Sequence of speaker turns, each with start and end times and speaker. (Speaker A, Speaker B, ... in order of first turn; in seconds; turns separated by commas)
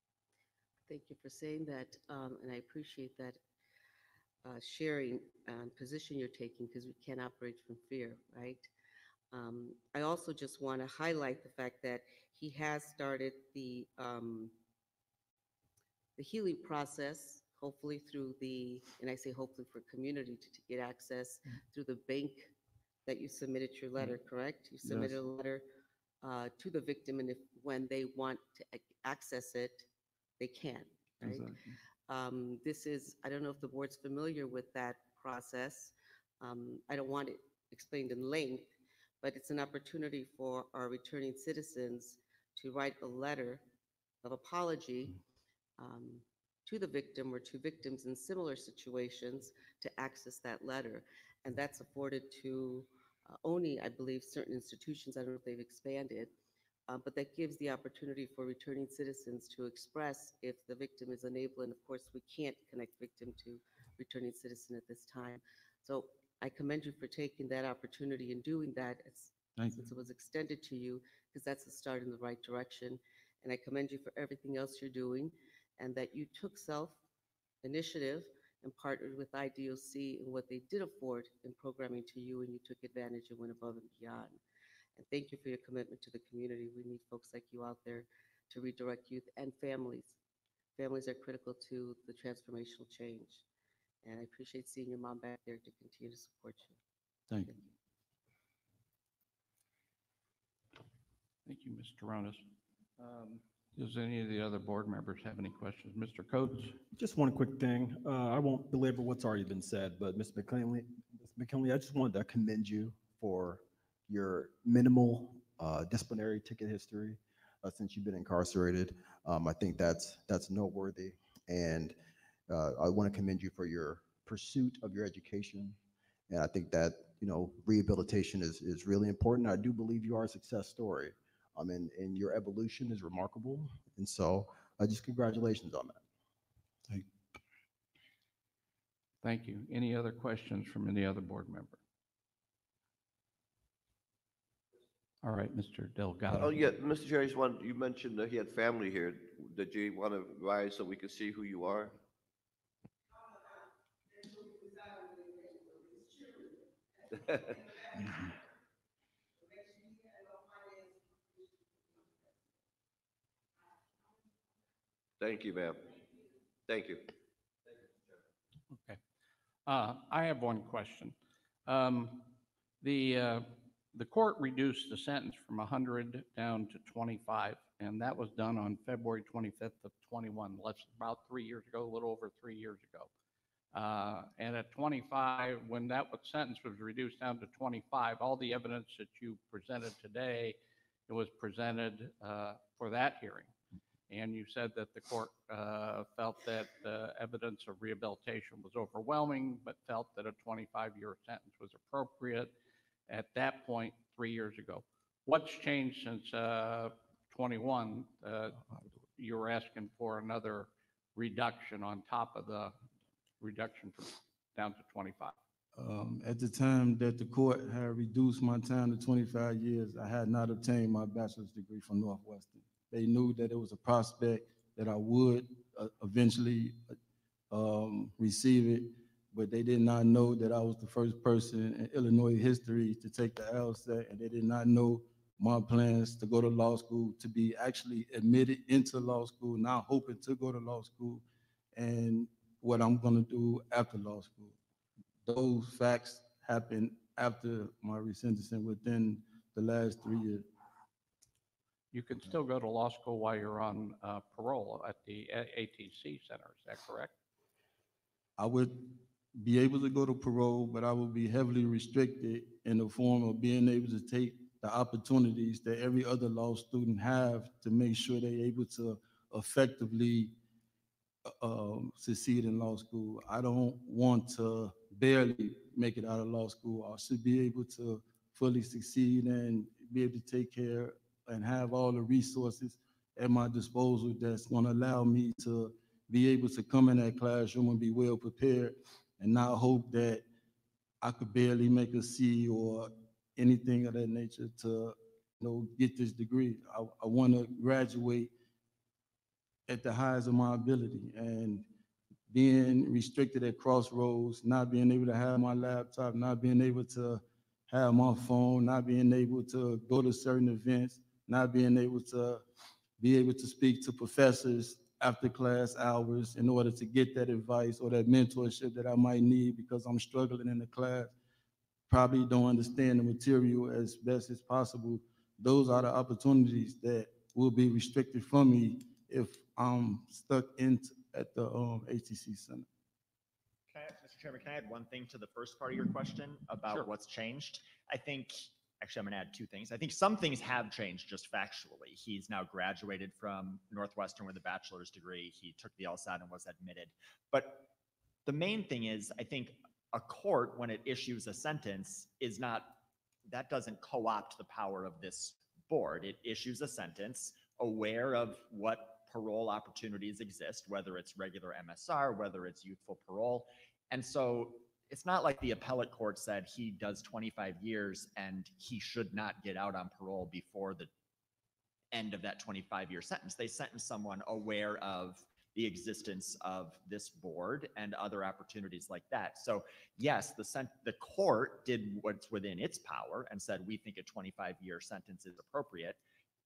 Speaker A: 0.9-3.4, Speaker A: 4.5-8.7, Speaker A: 9.3-14.5, Speaker A: 16.2-22.5, Speaker A: 23.1-25.6, Speaker B: 24.8-25.2, Speaker A: 26.2-29.9, Speaker A: 30.4-31.5, Speaker B: 31.2-31.8, Speaker A: 32.1-38.7, Speaker A: 39.2-43.6, Speaker A: 44.2-45.2, Speaker A: 45.8-56.3, Speaker A: 56.9-77.0, Speaker B: 69.6-69.9, Speaker A: 77.6-84.4, Speaker A: 85.0-90.2, Speaker A: 90.8-93.4, Speaker A: 94.0-96.8, Speaker C: 101.5-102.4, Speaker D: 103.0-103.4, Speaker C: 103.8-106.8, Speaker D: 107.0-122.0, Speaker D: 122.5-125.8, Speaker D: 126.3-136.0, Speaker C: 139.2-141.8, Speaker C: 145.2-146.6, Speaker E: 146.3-151.9, Speaker E: 165.2-166.0, Speaker E: 166.7-167.0, Speaker C: 168.7-169.0, Speaker C: 169.7-171.1, Speaker C: 171.7-172.2, Speaker C: 172.8-183.1, Speaker C: 183.7-190.6, Speaker C: 191.1-193.5, Speaker C: 194.1-202.5, Speaker C: 203.1-208.6, Speaker C: 209.2-212.7, Speaker C: 213.4-215.3, Speaker B: 215.8-226.8, Speaker B: 227.5-241.2, Speaker B: 241.8-244.6, Speaker B: 245.2-250.5, Speaker C: 251.9-257.1, Speaker B: 258.4-258.9, Speaker B: 259.4-270.3, Speaker B: 271.4-290.2, Speaker B: 291.0-298.3, Speaker B: 299.7-301.7, Speaker B: 302.3-312.4, Speaker B: 313.0-321.1, Speaker B: 321.9-332.7, Speaker F: 333.7-347.6, Speaker F: 348.3-352.8, Speaker F: 353.3-370.9, Speaker F: 371.9-386.0